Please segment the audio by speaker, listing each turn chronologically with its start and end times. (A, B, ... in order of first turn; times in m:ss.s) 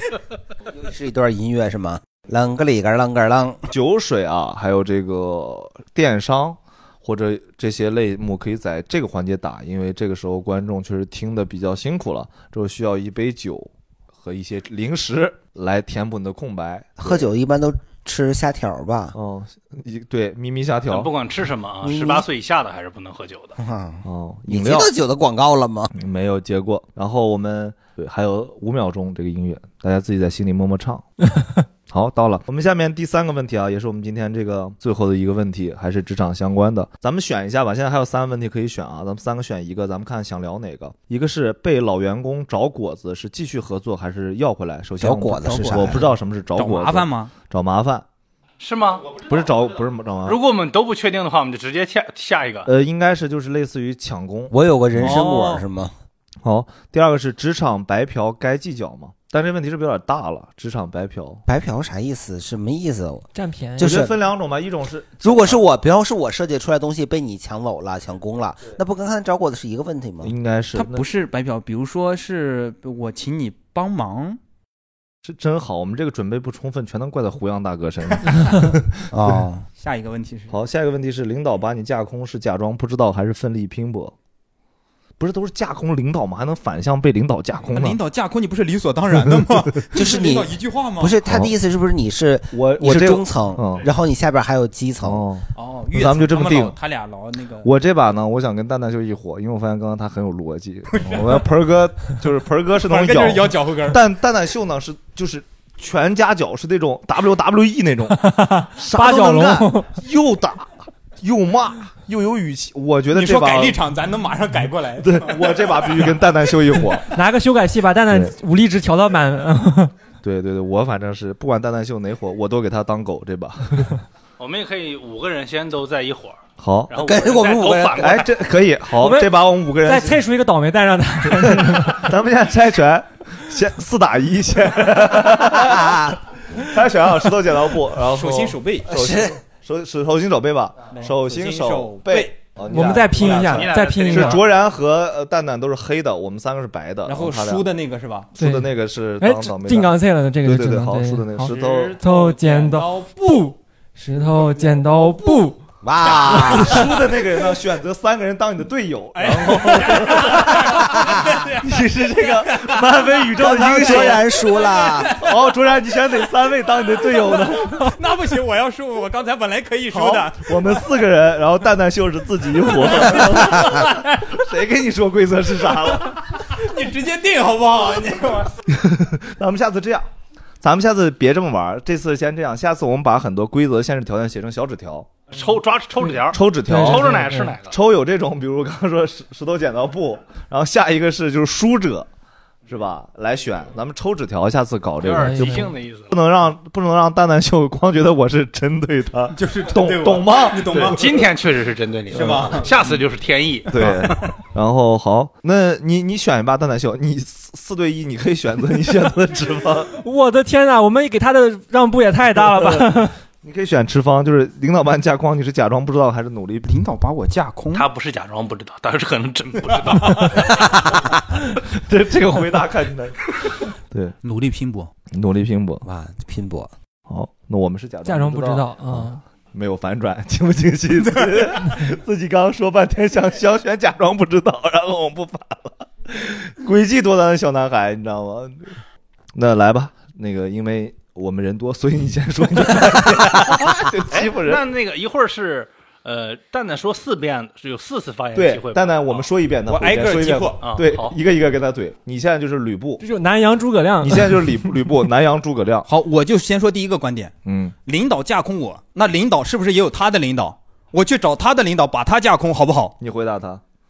0:00.7-0:03.6 A
0:03.7-0:17.3 B
0:17.0-0:19.2 A
0:19.1-0:21.1 B
0:20.9-0:23.6 C
0:21.8-0:22.2 A
0:23.6-0:25.9 A
0:24.0-0:24.9 B
0:25.9-0:31.0 B
0:31.9-0:48.0 B
0:45.0-0:46.0 A
0:45.4-0:47.3 D
0:48.6-0:49.2 C
0:49.2-0:50.4 B
0:50.2-0:52.7 C
0:52.6-0:55.2 B
0:54.5-0:55.9 A
0:55.0-0:55.6 D
0:56.4-1:01.4 B
1:01.5-1:03.2 A
1:03.3-1:04.1 E
1:03.8-1:04.1 A
1:03.8-1:05.6 B
1:05.2-1:10.3 A
1:10.2-1:11.1 B
1:10.7-1:14.4 D
1:15.2-1:19.4 B
1:19.1-1:19.6 A
1:19.8-1:20.6 D
1:20.5-1:24.1 B
1:25.2-1:28.0 B
1:27.6-1:31.2 D
1:29.9-1:35.2 A
1:31.2-1:31.5 B
1:32.5-1:33.9 B
1:35.0-1:36.8 B
1:35.6-1:37.7 D
1:37.6-1:53.8 B
1:40.9-1:41.4 D
1:42.8-1:44.0 D
1:48.2-1:49.9 E
1:53.1-1:56.2 D
1:55.0-1:57.1 B
1:57.1-1:59.9 E
2:00.2-2:03.9 B
2:04.4-2:08.3 C
2:06.6-2:06.9 B
2:07.0-2:08.2 A
2:08.0-2:10.2 B
2:09.0-2:12.1 E
2:11.3-2:27.7 B
2:15.5-2:16.2 A
2:18.1-2:18.9 D
2:18.9-2:19.4 A
2:20.9-2:22.4 D
2:22.7-2:24.4 E
2:23.2-2:24.4 C
2:27.0-2:28.3 D
2:28.3-2:32.0 B
2:28.4-2:35.6 E
2:31.5-2:33.5 D
2:34.3-2:35.4 D
2:35.8-2:36.9 A
2:36.0-2:36.9 D
2:36.2-2:44.3 B
2:39.1-2:45.3 D
2:40.7-2:41.4 A
2:43.4-2:45.1 A
2:45.0-2:48.0 B
2:47.0-2:50.8 D
2:49.9-2:56.2 B
2:52.8-2:54.3 D
2:56.0-2:58.5 D
2:58.7-3:00.0 B
3:00.6-3:05.2 B
3:05.3-3:07.8 C
3:06.3-3:12.1 B
3:06.6-3:07.6 E
3:12.7-3:21.2 B
3:15.0-3:16.1 C
3:15.1-3:15.7 E
3:19.3-3:21.2 D
3:20.8-3:24.3 C
3:22.1-3:22.7 D
3:23.7-3:29.9 B
3:30.0-3:33.2 E
3:32.6-3:32.9 B
3:33.4-3:36.8 B
3:36.6-3:37.9 D
3:37.7-3:40.9 C
3:39.8-3:40.1 D
3:41.6-3:44.1 B
3:44.2-3:44.9 D
3:45.1-3:45.8 B
3:45.8-3:46.7 A
3:47.1-3:58.8 B
3:48.0-3:49.2 E
3:51.0-3:51.7 D
3:59.3-4:04.6 B
4:04.1-4:09.2 C
4:08.3-4:13.0 B
4:09.7-4:10.6 D
4:10.6-4:11.1 C
4:13.0-4:14.4 E
4:14.0-4:15.9 B
4:15.9-4:17.3 D
4:17.4-4:17.7 B
4:17.8-4:22.9 D
4:23.0-4:23.6 B